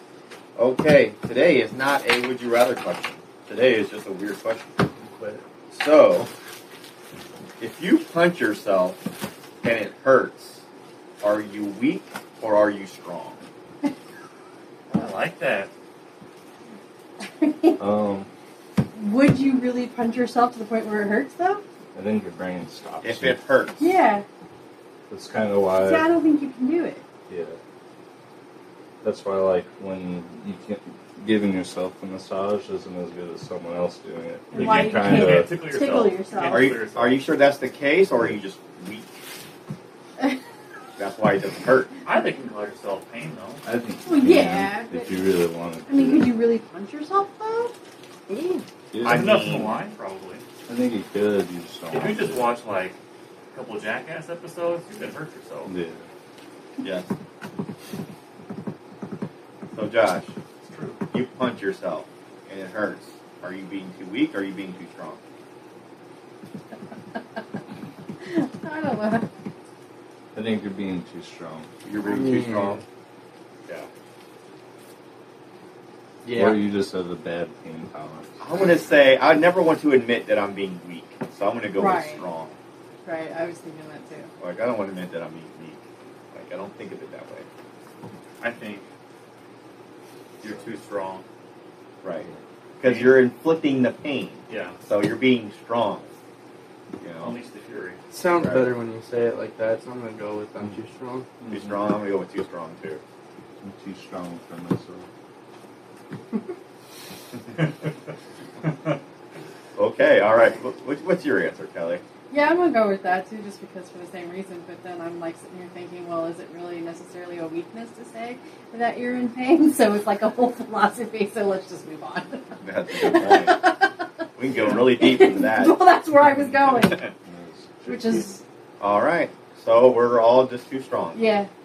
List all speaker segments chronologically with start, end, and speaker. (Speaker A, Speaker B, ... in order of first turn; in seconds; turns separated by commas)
Speaker A: 0.6-4.8, Speaker A: 5.7-6.3, Speaker A: 7.6-9.0, Speaker A: 9.6-10.6, Speaker A: 11.2-13.4, Speaker B: 14.9-15.7, Speaker C: 17.2-17.8, Speaker D: 17.8-18.3, Speaker C: 18.9-21.6, Speaker D: 21.9-23.4, Speaker A: 23.0-23.9, Speaker C: 23.8-24.2, Speaker D: 25.1-26.1, Speaker C: 25.8-27.0, Speaker D: 27.3-27.6, Speaker D: 29.0-35.6, Speaker C: 34.5-36.7, Speaker B: 34.5-37.2, Speaker A: 36.5-39.2, Speaker A: 41.0-41.9, Speaker B: 42.0-43.6, Speaker D: 43.6-46.4, Speaker C: 44.0-45.3, Speaker C: 45.9-47.7, Speaker A: 48.3-49.8, Speaker D: 48.9-49.4, Speaker B: 49.0-50.4, Speaker D: 50.7-52.5, Speaker B: 51.9-53.0, Speaker B: 53.5-55.7, Speaker D: 55.6-56.0, Speaker A: 56.8-57.1, Speaker A: 59.7-60.3, Speaker B: 60.6-61.0, Speaker A: 61.1-65.2, Speaker C: 68.2-69.3, Speaker D: 70.3-71.7, Speaker A: 71.8-72.8, Speaker E: 72.1-72.8, Speaker E: 76.2-76.5, Speaker D: 76.3-78.3, Speaker A: 78.4-82.6, Speaker C: 81.8-82.2, Speaker C: 83.0-84.3, Speaker A: 84.4-87.5, Speaker B: 88.4-88.8, Speaker B: 90.4-91.2, Speaker A: 92.0-92.3, Speaker A: 92.8-96.1, Speaker B: 92.8-93.2, Speaker B: 94.5-94.8, Speaker A: 97.0-97.4, Speaker B: 97.2-98.0, Speaker E: 98.1-101.2, Speaker A: 98.3-98.7, Speaker D: 101.4-102.0, Speaker A: 101.5-103.0, Speaker D: 103.6-105.1, Speaker B: 107.6-107.9, Speaker B: 108.6-109.0, Speaker A: 109.8-112.0, Speaker C: 112.3-124.0, Speaker A: 122.6-123.6, Speaker A: 124.4-125.8, Speaker C: 124.5-127.1, Speaker D: 127.2-128.3, Speaker C: 127.8-128.4, Speaker A: 128.8-131.3, Speaker C: 131.1-131.5